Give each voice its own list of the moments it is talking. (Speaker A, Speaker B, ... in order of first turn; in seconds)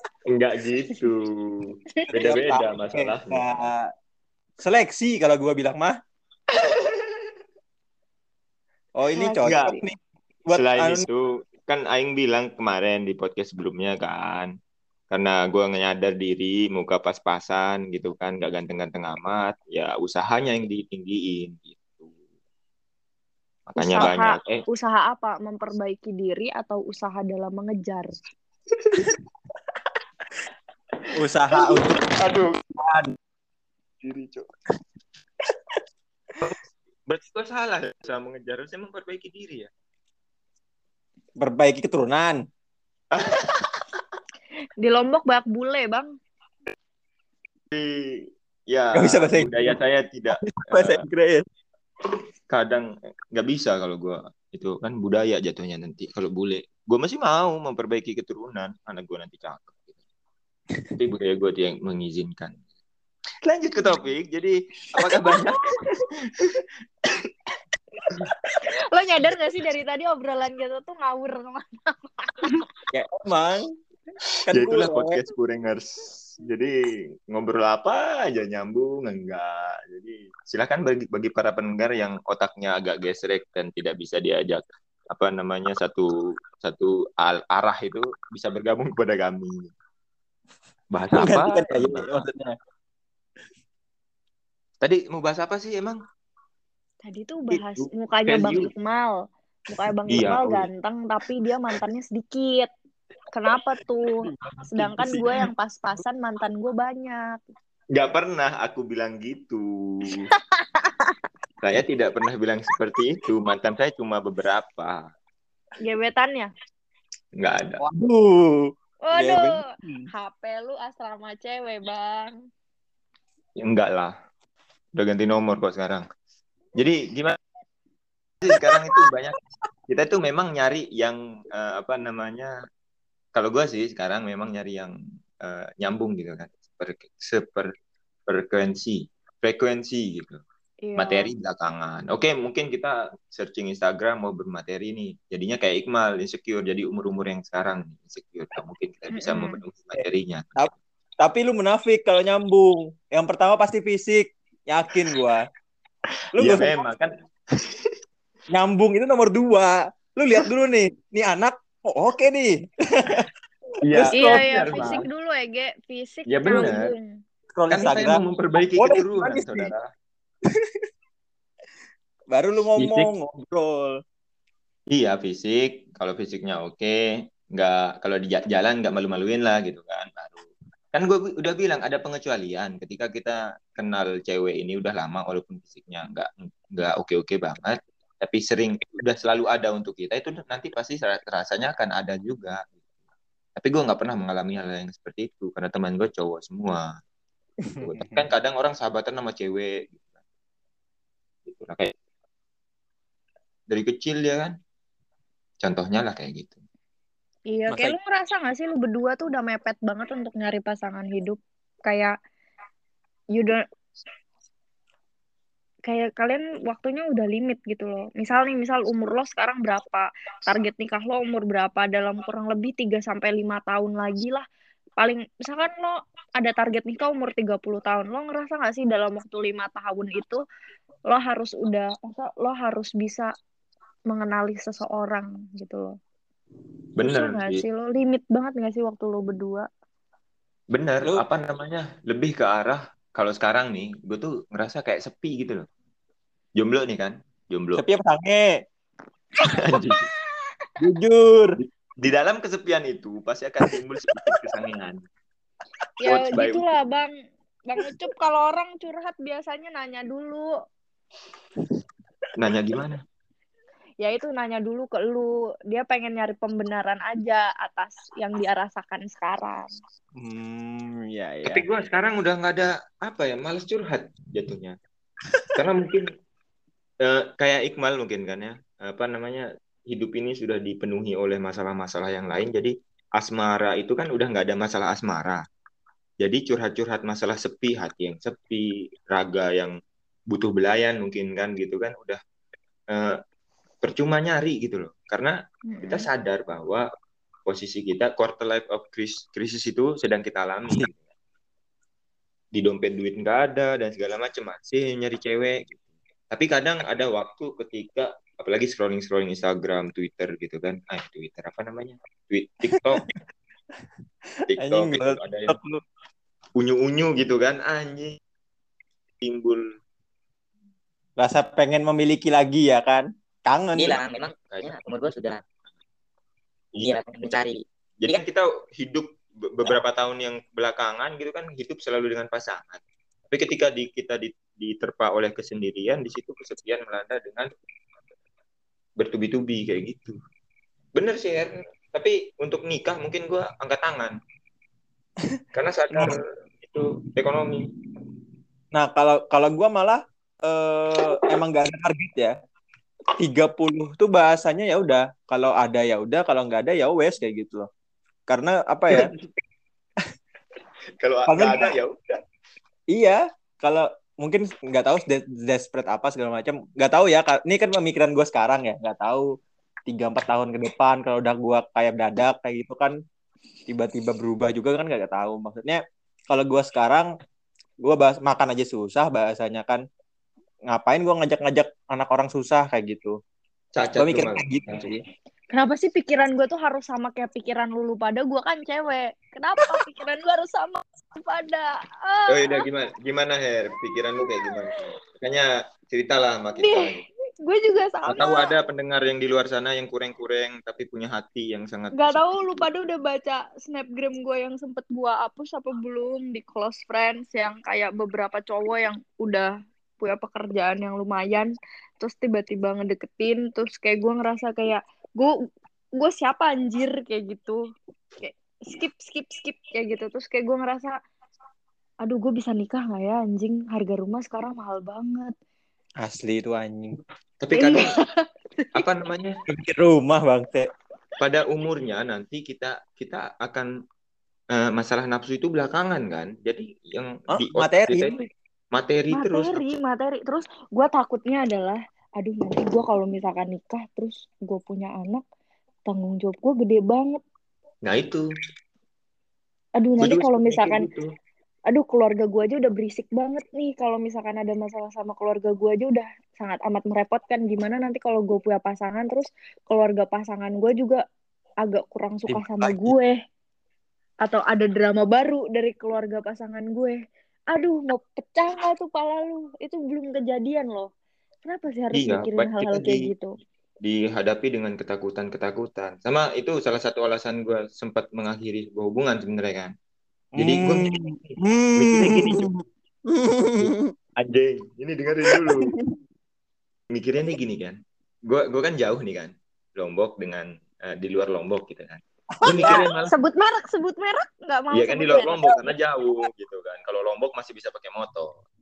Speaker A: 0.3-3.6, 6.6-7.1, 9.4-9.8, 10.5-14.5, 15.1-22.1, 23.7-24.6, 28.7-29.1, 31.5-32.6, 34.0-34.5, 36.4-39.7, 43.1-43.8, 47.7-51.0, 52.5-59.9, 61.0-62.6, 63.4-65.7, 66.4-67.3, 74.5-76.7, 77.3-89.7, 90.9-92.2, 94.8-96.0, 97.5-98.7, 100.1-100.7, 107.9-110.3, 111.6-115.0, 117.4-117.8, 123.6-124.1, 124.9-126.0, 126.7-127.4, 128.4-132.5, 133.3-137.7, 138.3-140.4, 141.0-150.5, 156.3-157.9, 163.8-165.1, 166.3-166.9, 167.7-169.8, 172.8-173.1, 174.9-177.0, 177.5-192.8, 193.6-196.9, 197.8-200.0, 201.4-201.9, 203.7-204.5, 205.6-206.6, 237.0-237.6, 240.7-245.7, 246.6-247.8, 249.5-250.0, 251.6-255.0, 256.1-256.6, 262.3-263.0, 271.5-274.8, 275.5-276.1, 277.0-285.4, 286.2-289.7, 290.3-292.2, 292.9-293.2, 293.8-296.9, 297.4-301.0, 302.5-305.8, 306.3-313.1, 314.5-315.6, 316.6-318.2, 319.2-319.7, 324.5-324.8, 326.7-327.4, 328.0-337.5, 339.0-340.1, 340.9-344.1, 345.5-347.7, 358.9-359.2, 361.0-362.2, 383.7-384.9, 392.3-397.0, 398.1-402.5, 427.4-427.9, 428.8-429.4, 431.2-433.7, 434.5-439.7, 447.8-448.2, 450.0-451.1, 462.3-462.9, 471.9-473.1, 473.8-479.7, 480.4-482.4, 483.6-485.7, 486.9-493.1, 494.7-498.4
Speaker B: 2.1-3.9, 4.6-6.0, 9.0-11.0, 31.1-32.1, 32.8-33.1, 41.4-42.4, 48.9-49.8, 50.4-51.4, 72.9-73.7, 74.5-75.2, 91.2-92.5, 104.3-105.3, 117.8-120.1, 128.7-129.0, 150.6-155.4, 156.3-156.7, 158.5-163.3, 163.9-165.0, 167.5-168.2, 168.7-169.7, 170.5-170.8, 172.3-174.0, 197.6-198.2, 207.7-208.0, 247.7-248.5, 250.8-251.6, 270.2-271.6, 314.4-315.8, 321.2-324.0, 348.7-352.3, 353.2-357.7, 358.3-359.1, 361.3-361.7, 362.9-369.3, 369.9-372.9, 373.7-377.1, 377.8-379.8, 380.7-383.2, 383.9-385.0, 426.0-427.0, 429.5-430.7, 437.3-438.1, 480.3-483.9, 485.2-485.7, 492.4-492.9
Speaker C: 9.2-9.8, 23.8-28.1, 44.8-46.1, 65.3-66.0, 68.9-72.5, 97.0-99.1, 99.7-102.7, 103.3-107.5, 110.5-111.2, 115.8-116.5, 119.0-122.4, 140.8-141.3, 149.1-149.6, 164.1-167.2, 207.5-212.1, 213.3-213.6, 215.9-224.4, 225.0-230.4, 231.1-233.3, 234.1-235.9, 237.0-239.7, 256.0-257.1, 257.7-260.5, 264.0-269.7, 295.7-296.1, 385.5-392.6, 394.2-394.6, 396.6-398.5, 401.9-415.3, 416.0-417.6, 418.2-421.0, 422.0-425.3, 427.5-428.7, 439.1-445.2, 445.9-447.2, 449.8-450.9, 451.7-461.0, 461.6-463.2, 464.2-467.0, 467.5-470.9, 471.4-473.3, 492.5-495.7
Speaker D: 323.8-325.4, 326.8-328.2